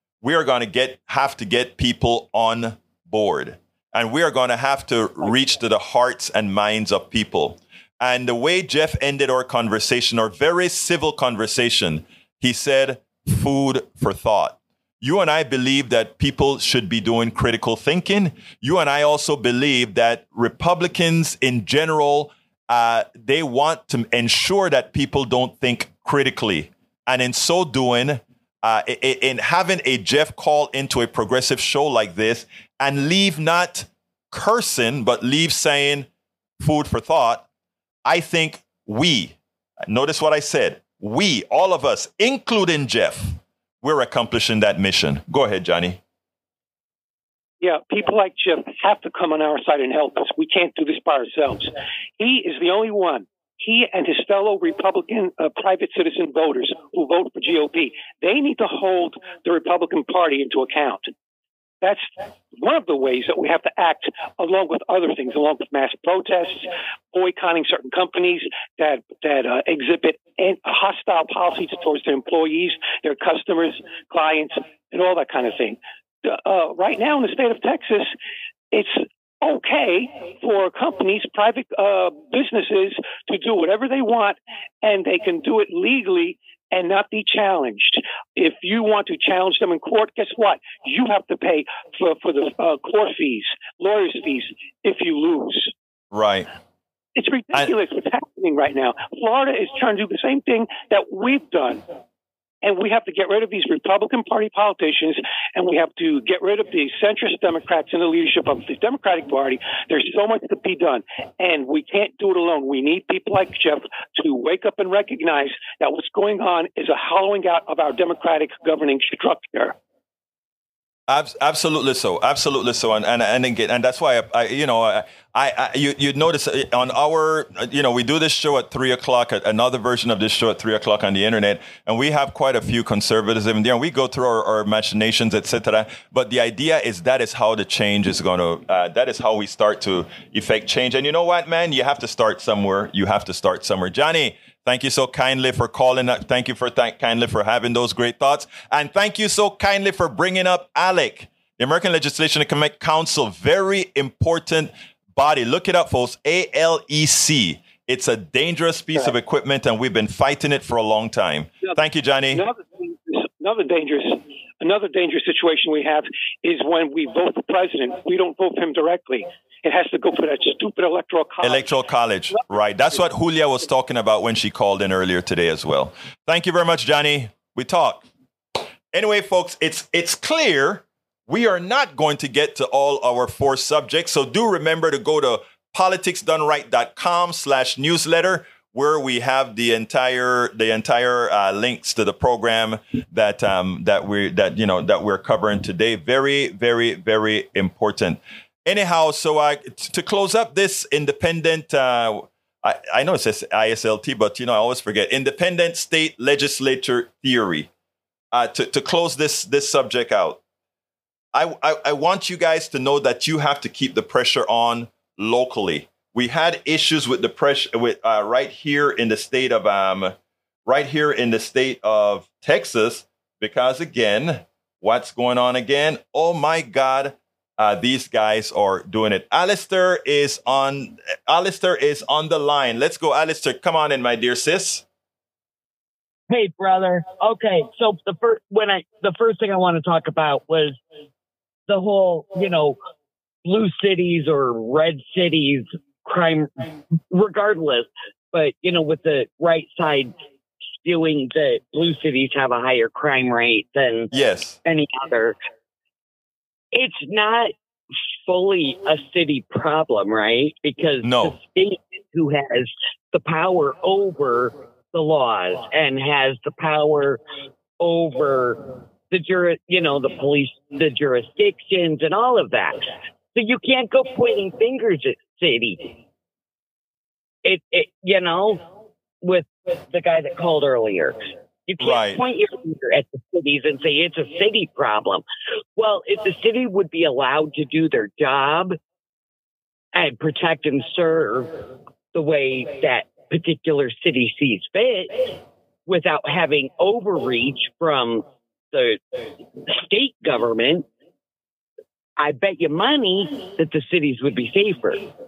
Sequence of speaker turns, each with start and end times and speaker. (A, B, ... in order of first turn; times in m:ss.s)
0:00.2-0:36.1 A
0:36.6-0:37.5 A
0:38.1-0:39.4 A
0:39.9-0:46.0 A
0:47.6-1:01.1 B
1:01.8-1:18.1 B
1:18.7-1:35.7 B
1:36.1-1:36.5 A
1:37.2-1:41.8 B
1:42.6-1:59.8 B
2:01.1-2:42.4 A
2:42.3-2:51.8 B
2:51.4-2:58.0 A
2:58.9-3:27.7 A
3:28.3-3:30.4 A
3:31.3-3:40.2 A
3:40.7-3:54.8 A
3:56.3-4:00.8 C
4:01.7-4:02.8 C
4:03.4-4:10.1 C
4:10.8-4:14.1 C
4:14.1-4:14.6 A
4:14.6-4:15.4 C
4:16.7-4:17.5 C
4:18.2-4:27.2 C
4:21.0-4:21.4 A
4:27.8-4:35.9 C
4:37.4-4:38.7 C
4:39.2-4:45.2 C
4:41.8-4:42.2 A
4:45.8-4:48.8 C
4:49.9-4:59.0 C
4:59.7-5:00.9 C
5:02.2-5:05.1 C